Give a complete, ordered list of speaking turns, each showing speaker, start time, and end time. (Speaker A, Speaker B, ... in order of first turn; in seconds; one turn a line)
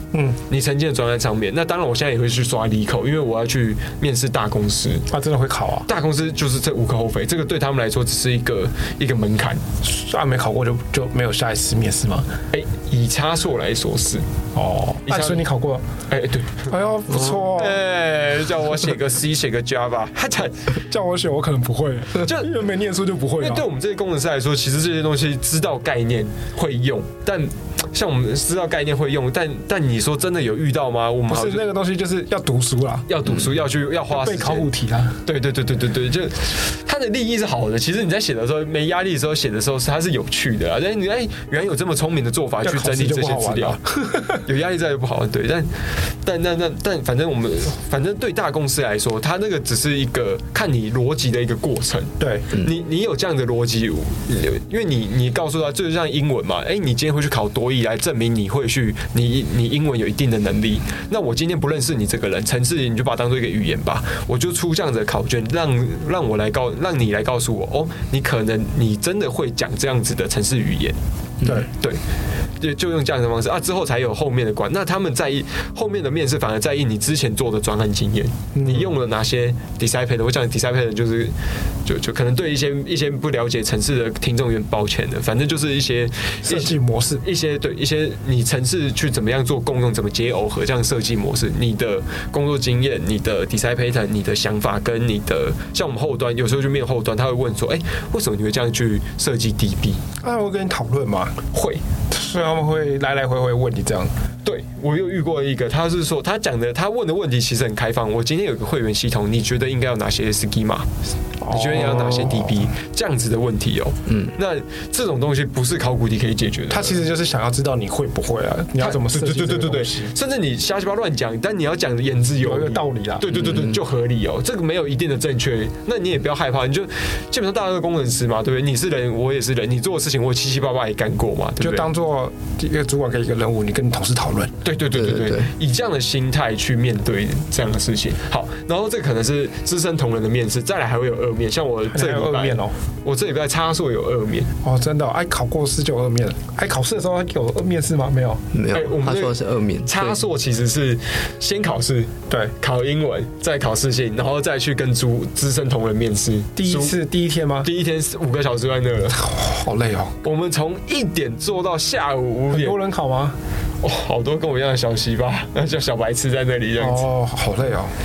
Speaker A: 0.1-0.4
Speaker B: 0.5-5.1
Speaker A: 5.1-5.9
Speaker B: 5.9-9.6
Speaker A: 9.8-12.3
Speaker B: 12.5-14.2
Speaker A: 14.5-15.8
Speaker B: 15.1-15.4
Speaker B: 16.1-20.8
Speaker A: 16.7-17.8
Speaker A: 20.8-23.7
Speaker B: 22.2-22.5
Speaker B: 23.4-31.7
Speaker A: 31.3-33.1
Speaker B: 33.1-34.7
Speaker A: 34.1-35.2
Speaker B: 35.2-43.8
Speaker A: 42.6-44.4
Speaker B: 44.3-71.0
Speaker A: 52.2-52.5
Speaker B: 71.7-72.0
Speaker B: 72.6-81.3
Speaker A: 78.5-78.9
Speaker B: 81.9-100.0
Speaker A: 86.4-87.2
Speaker A: 100.2-101.4
Speaker B: 101.5-101.8
Speaker A: 102.1-104.1
Speaker B: 104.4-110.9
Speaker A: 111.4-112.7
Speaker B: 111.5-117.0
Speaker A: 116.7-120.1
Speaker B: 118.8-131.9
Speaker A: 122.4-123.3
Speaker C: 123.4-123.8
Speaker A: 131.6-134.6
Speaker B: 134.6-144.5
Speaker C: 134.9-135.5
Speaker A: 141.9-142.8
Speaker A: 144.6-148.4
Speaker C: 148.5-150.2
Speaker B: 148.7-157.0
Speaker A: 156.6-157.7
Speaker B: 157.6-159.3
Speaker A: 159.2-160.2
Speaker B: 160.2-162.8
Speaker A: 162.5-163.4
Speaker B: 163.8-167.1
Speaker A: 166.8-167.9